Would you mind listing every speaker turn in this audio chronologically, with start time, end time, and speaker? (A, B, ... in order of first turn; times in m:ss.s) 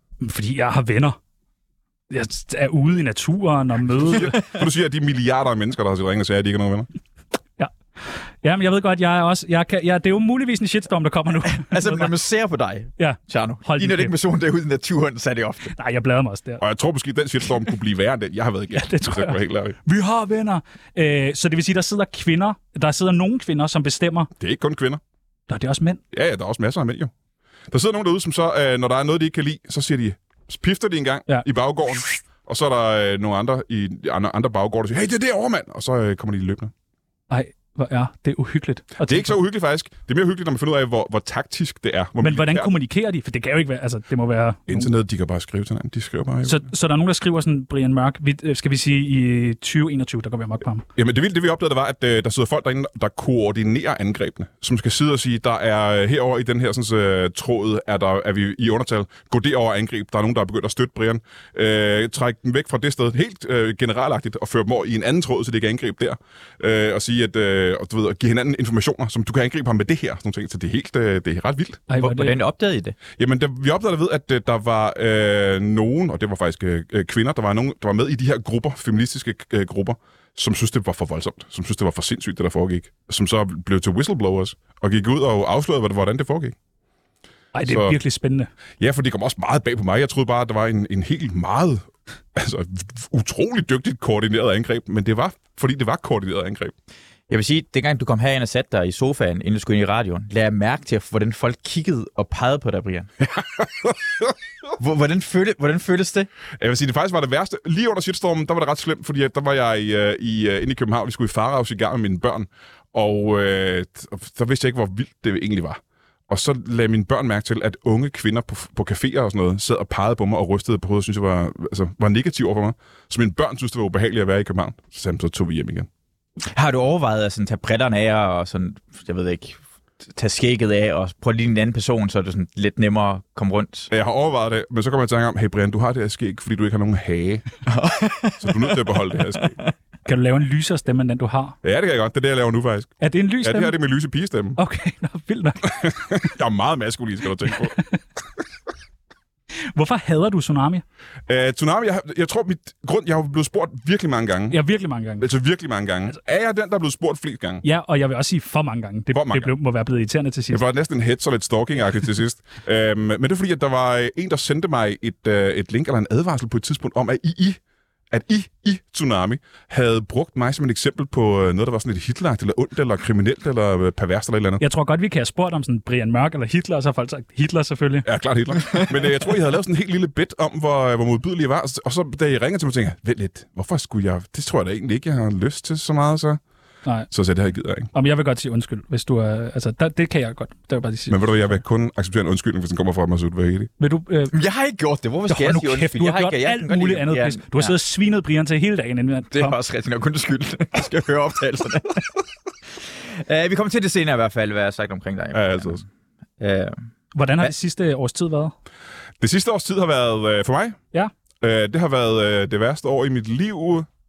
0:00.2-0:01.2 A
0:02.1-0:04.4 A
0:04.2-0:06.9 B
0:07.6-0:12.1 A
0:11.4-0:15.8 C
0:13.0-0:14.2 A
0:15.8-0:16.6 A
0:16.6-0:19.8 B
0:18.7-0:24.3 A
0:24.4-0:25.0 B
0:25.5-0:26.0 A
0:26.1-0:27.1 B
0:27.7-0:36.7 B
0:37.3-0:39.4 A
0:39.0-0:42.7 B
0:42.2-0:44.9 A
0:44.7-0:46.7 B
0:46.4-0:50.8 A
0:51.0-1:11.8 B
1:11.9-1:12.4 A
1:12.0-1:13.0 C
1:13.2-1:26.6 B
1:27.5-1:28.5 A
1:27.6-1:28.0 B
1:28.8-1:36.7 B
1:37.3-1:43.1 C
1:43.2-1:44.3 B
1:44.8-1:46.3 C
1:46.6-2:05.9 B
2:06.5-2:09.6 C
2:10.1-2:13.9 C
2:13.9-2:17.5 B
2:17.7-2:18.9 C
2:18.4-2:19.6 B
2:20.1-2:21.6 A
2:21.6-2:24.6 B
2:23.0-2:23.8 A
2:24.6-2:25.9 A
2:25.7-2:27.8 B
2:27.5-2:27.8 A
2:29.7-2:30.8 A
2:31.3-2:34.6 B
2:34.5-2:35.3 A
2:35.2-2:37.6 B
2:37.6-2:40.6 A
2:39.1-2:39.5 B
2:40.5-2:47.6 B
2:48.1-2:54.6 B
2:54.6-2:58.1 A
2:58.0-3:06.4 B
3:07.1-3:07.9 B
3:07.9-3:11.5 A
3:11.1-3:13.7 B
3:13.8-3:14.3 A
3:14.3-3:17.8 C
3:15.3-3:19.6 A
3:19.3-3:22.1 C
3:23.0-3:25.8 C
3:25.3-3:25.8 B
3:26.4-3:26.8 C
3:27.2-3:28.6 A
3:29.2-3:30.8 B
3:31.4-3:33.9 B